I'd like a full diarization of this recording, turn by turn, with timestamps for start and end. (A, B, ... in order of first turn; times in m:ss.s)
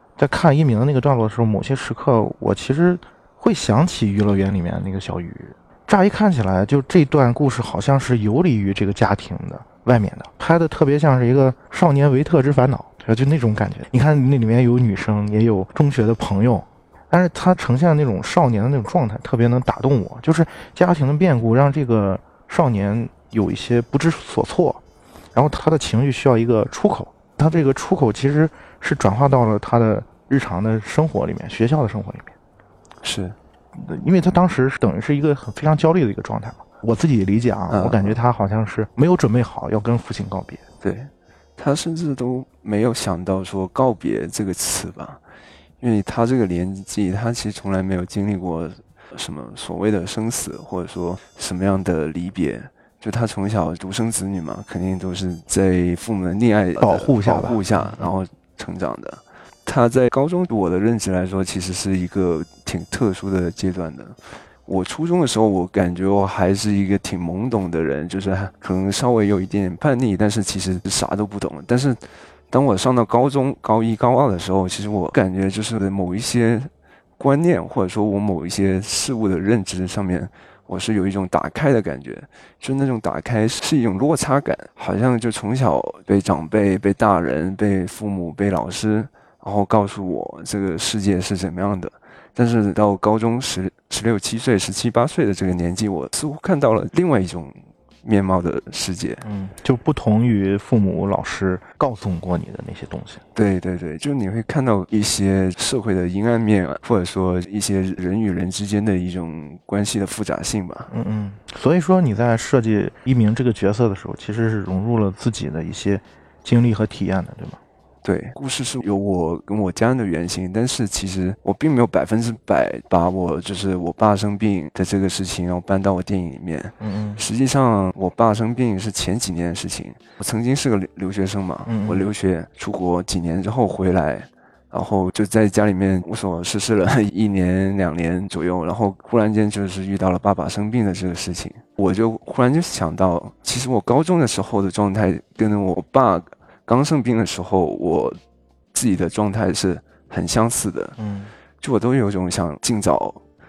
0:00.2-0:24.8 A
0:25.3-0:32.3 A
0:33.0-0:33.4 B
0:33.8-0:40.6 A
0:37.7-0:38.2 B
0:40.8-0:45.2 B
0:45.8-1:39.2 B
0:56.8-0:57.9 A
1:39.2-1:43.2 A
1:43.4-1:50.9 B
1:50.9-1:57.6 A
1:58.0-2:28.2 B
2:06.8-2:07.2 A
2:11.7-2:12.1 A
2:28.7-2:31.0 B
2:31.0-2:31.3 A
2:31.6-2:33.2 B